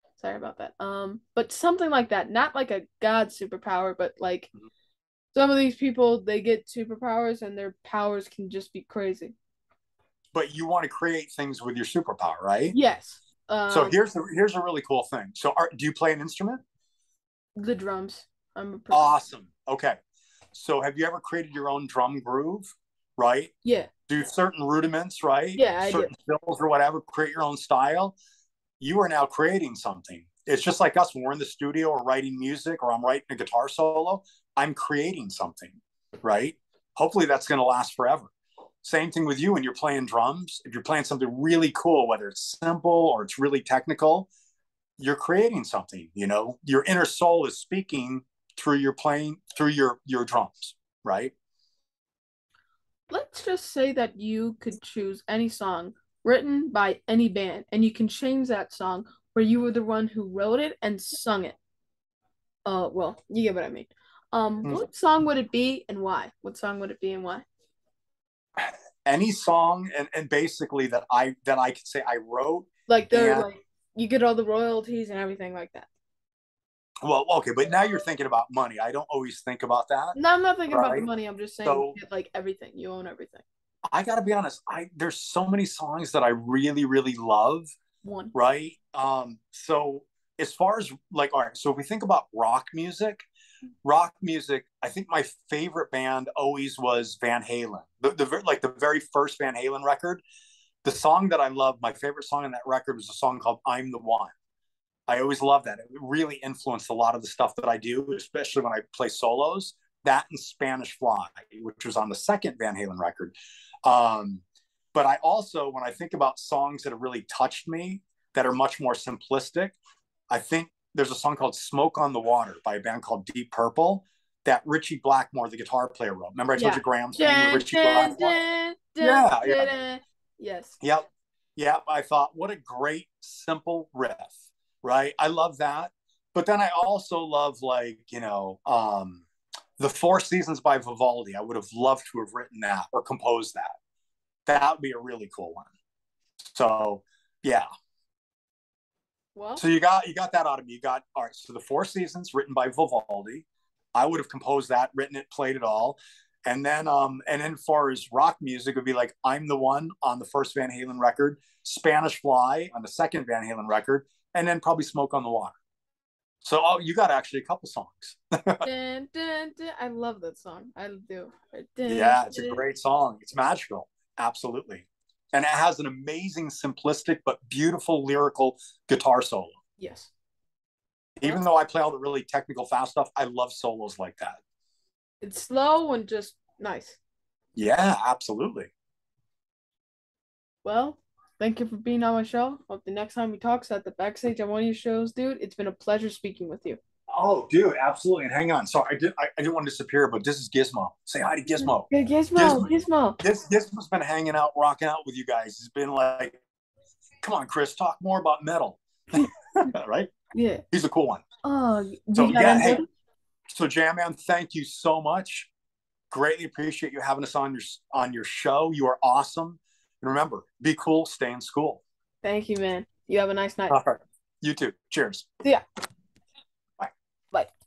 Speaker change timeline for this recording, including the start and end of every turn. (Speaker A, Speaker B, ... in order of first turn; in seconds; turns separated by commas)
Speaker A: 0.2-4.5, Speaker A: 5.3-9.3, Speaker B: 10.3-12.8, Speaker A: 12.7-14.0, Speaker B: 13.7-16.6, Speaker A: 17.6-19.1, Speaker B: 18.9-20.0, Speaker B: 20.5-23.5, Speaker A: 23.6-23.9, Speaker B: 24.1-28.2, Speaker A: 25.6-26.1, Speaker B: 28.8-38.3, Speaker B: 38.8-44.3, Speaker B: 45.0-51.3, Speaker A: 53.1-61.6, Speaker A: 62.6-67.5, Speaker B: 68.6-73.5, Speaker A: 72.9-75.9, Speaker B: 77.0-80.2, Speaker A: 80.2-83.4, Speaker B: 80.7-81.1, Speaker B: 81.6-82.0, Speaker B: 83.9-87.7, Speaker A: 88.0-88.3, Speaker B: 88.3-93.2, Speaker B: 93.8-100.2, Speaker B: 100.8-104.3, Speaker B: 105.1-119.8, Speaker B: 120.3-128.4, Speaker A: 126.6-130.8, Speaker B: 129.0-129.7, Speaker B: 130.8-139.3, Speaker B: 139.8-143.7, Speaker B: 144.5-145.7, Speaker B: 146.4-147.7, Speaker A: 149.3-149.6, Speaker B: 149.6-165.6, Speaker B: 166.4-168.7, Speaker A: 168.6-172.6, Speaker B: 171.9-179.6, Speaker A: 179.8-180.1, Speaker B: 181.2-184.4, Speaker A: 185.2-187.0, Speaker B: 187.6-188.7, Speaker A: 190.6-196.8, Speaker B: 197.1-206.4, Speaker A: 201.6-203.2, Speaker B: 207.2-210.1, Speaker A: 209.2-209.7, Speaker A: 210.3-210.6, Speaker B: 210.7-211.2, Speaker A: 211.4-212.8, Speaker B: 212.1-212.8, Speaker B: 213.5-215.5, Speaker B: 216.1-221.8, Speaker A: 222.2-223.8, Speaker B: 223.7-225.3